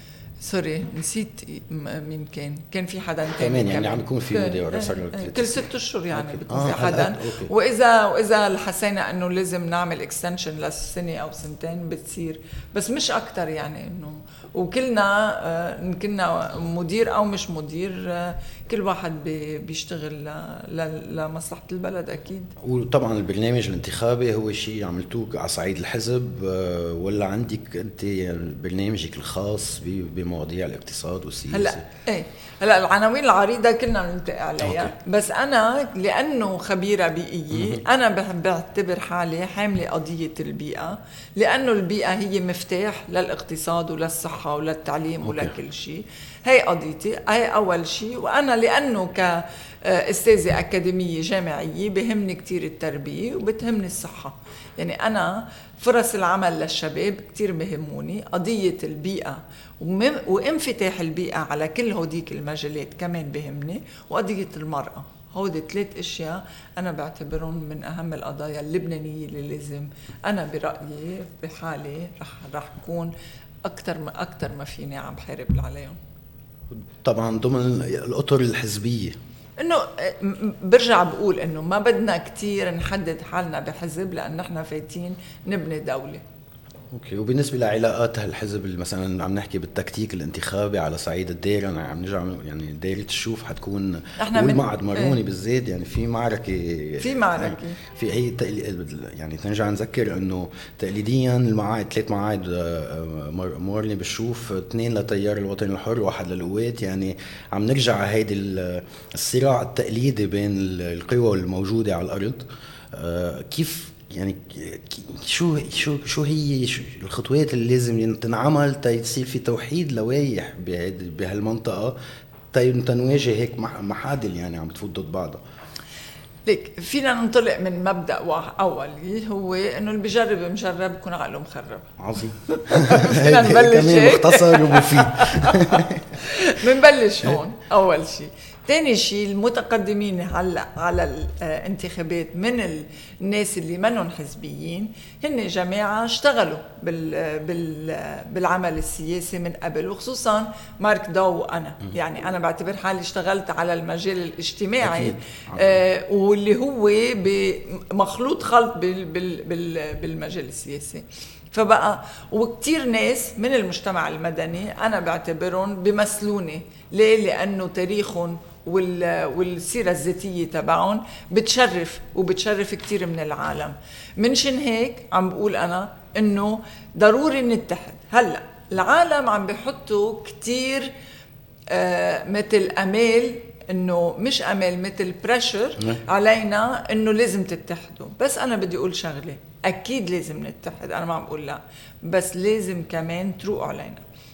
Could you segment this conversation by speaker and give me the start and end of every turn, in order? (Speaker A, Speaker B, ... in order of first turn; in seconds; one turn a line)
Speaker A: 0.4-22.5
Speaker B: 3.4-7.5
Speaker B: 22.6-31.8
Speaker A: 31.5-73.1
Speaker B: 34.6-34.9
Speaker B: 45.2-45.5
Speaker A: 73.6-76.0
Speaker B: 76.7-79.2
Speaker A: 79.6-86.2
Speaker B: 86.9-122.0
Speaker A: 94.2-95.2
Speaker A: 97.0-97.8
Speaker B: 122.5-125.4
Speaker A: 126.5-180.9
Speaker B: 132.0-136.2
Speaker B: 154.8-155.8
Speaker A: 181.7-194.0